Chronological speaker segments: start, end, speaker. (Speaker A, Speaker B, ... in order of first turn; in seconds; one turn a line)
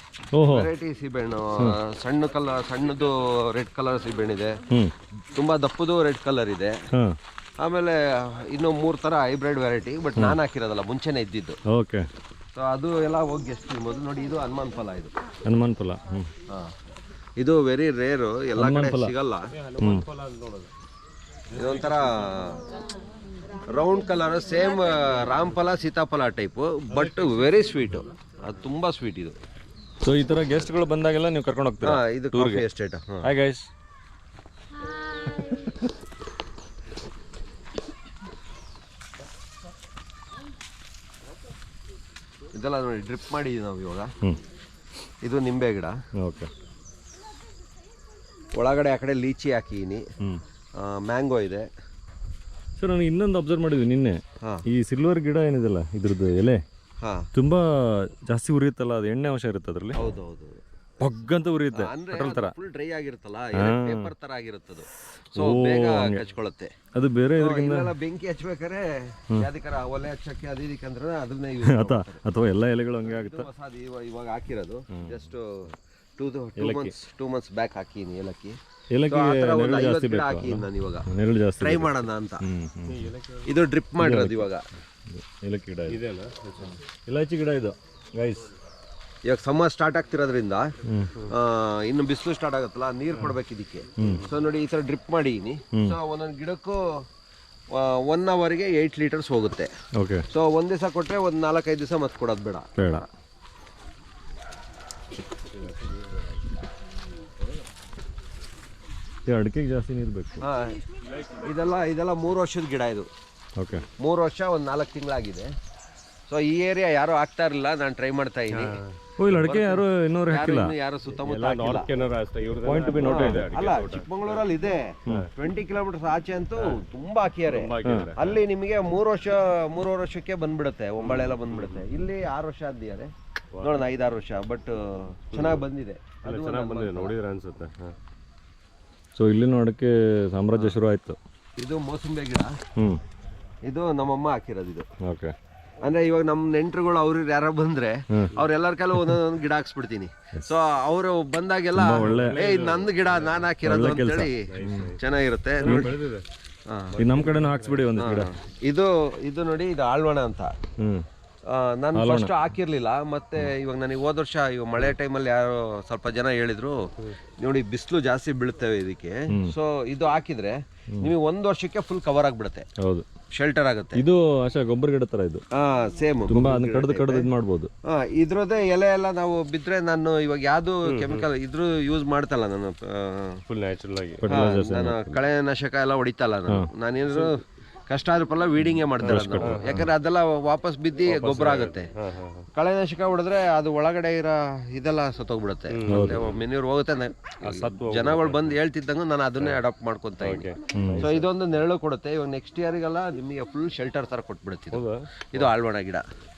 Speaker A: 0.3-0.7
Speaker B: 0.4-4.6
Speaker B: 5.3-6.8
Speaker B: 7.6-11.6
Speaker A: 11.7-12.1
Speaker B: 12.6-15.1
Speaker A: 15.5-16.3
Speaker B: 17.4-19.5
Speaker A: 18.6-19.1
Speaker C: 19.6-20.7
Speaker A: 19.8-20.1
Speaker B: 21.6-22.6
Speaker C: 21.6-21.9
Speaker B: 23.7-29.3
Speaker A: 30.0-32.7
Speaker B: 31.8-33.3
Speaker A: 33.2-33.7
Speaker A: 35.1-35.9
Speaker B: 42.5-44.1
Speaker B: 45.2-46.0
Speaker A: 46.2-46.5
Speaker B: 48.5-50.0
Speaker B: 50.8-51.7
Speaker A: 52.8-56.6
Speaker B: 57.0-57.3
Speaker A: 57.4-60.0
Speaker B: 60.0-60.6
Speaker A: 61.0-62.5
Speaker B: 61.7-66.7
Speaker A: 63.5-64.1
Speaker A: 65.3-66.2
Speaker A: 66.9-67.9
Speaker B: 67.4-72.2
Speaker A: 71.7-73.5
Speaker B: 73.0-81.1
Speaker A: 74.9-75.2
Speaker A: 76.6-76.9
Speaker A: 78.9-83.1
Speaker B: 81.6-82.4
Speaker C: 82.9-83.5
Speaker B: 83.5-84.7
Speaker A: 84.0-84.5
Speaker A: 85.1-86.0
Speaker C: 85.9-86.8
Speaker A: 87.1-88.5
Speaker B: 89.3-96.8
Speaker A: 90.9-91.1
Speaker A: 94.0-94.3
Speaker B: 97.7-99.7
Speaker A: 100.0-100.2
Speaker B: 100.3-102.7
Speaker A: 102.8-103.1
Speaker A: 109.3-110.5
Speaker B: 110.4-110.8
Speaker B: 111.4-113.1
Speaker A: 113.6-113.9
Speaker B: 114.0-115.5
Speaker B: 116.3-118.8
Speaker C: 118.5-119.0
Speaker A: 119.2-120.7
Speaker B: 119.3-121.9
Speaker C: 121.2-124.3
Speaker A: 122.6-123.6
Speaker B: 123.0-137.1
Speaker C: 127.5-128.4
Speaker A: 127.8-128.1
Speaker C: 131.0-131.8
Speaker C: 136.2-137.9
Speaker A: 139.2-141.2
Speaker B: 141.6-142.6
Speaker A: 142.8-143.0
Speaker B: 143.7-144.9
Speaker A: 145.0-145.3
Speaker B: 145.8-155.9
Speaker A: 151.8-152.5
Speaker C: 152.1-153.4
Speaker A: 153.6-154.9
Speaker C: 154.5-155.0
Speaker A: 155.6-156.0
Speaker C: 155.6-156.2
Speaker B: 156.7-157.0
Speaker A: 157.0-158.3
Speaker C: 157.0-157.8
Speaker B: 158.0-160.5
Speaker A: 160.8-161.1
Speaker B: 161.5-166.8
Speaker A: 161.9-162.3
Speaker B: 167.4-172.7
Speaker A: 172.8-173.1
Speaker B: 173.3-174.0
Speaker A: 174.0-175.4
Speaker B: 175.5-177.3
Speaker A: 176.3-177.7
Speaker B: 177.9-183.4
Speaker C: 180.9-181.3
Speaker C: 183.5-184.4
Speaker A: 184.2-185.2
Speaker B: 184.3-191.9
Speaker A: 188.9-189.9
Speaker C: 189.4-189.8
Speaker C: 191.1-192.5
Speaker B: 192.5-206.0
Speaker C: 195.7-196.3
Speaker A: 195.9-196.3
Speaker C: 197.5-198.2
Speaker A: 198.0-198.5
Speaker C: 200.2-201.2
Speaker A: 200.6-201.2
Speaker C: 204.7-205.0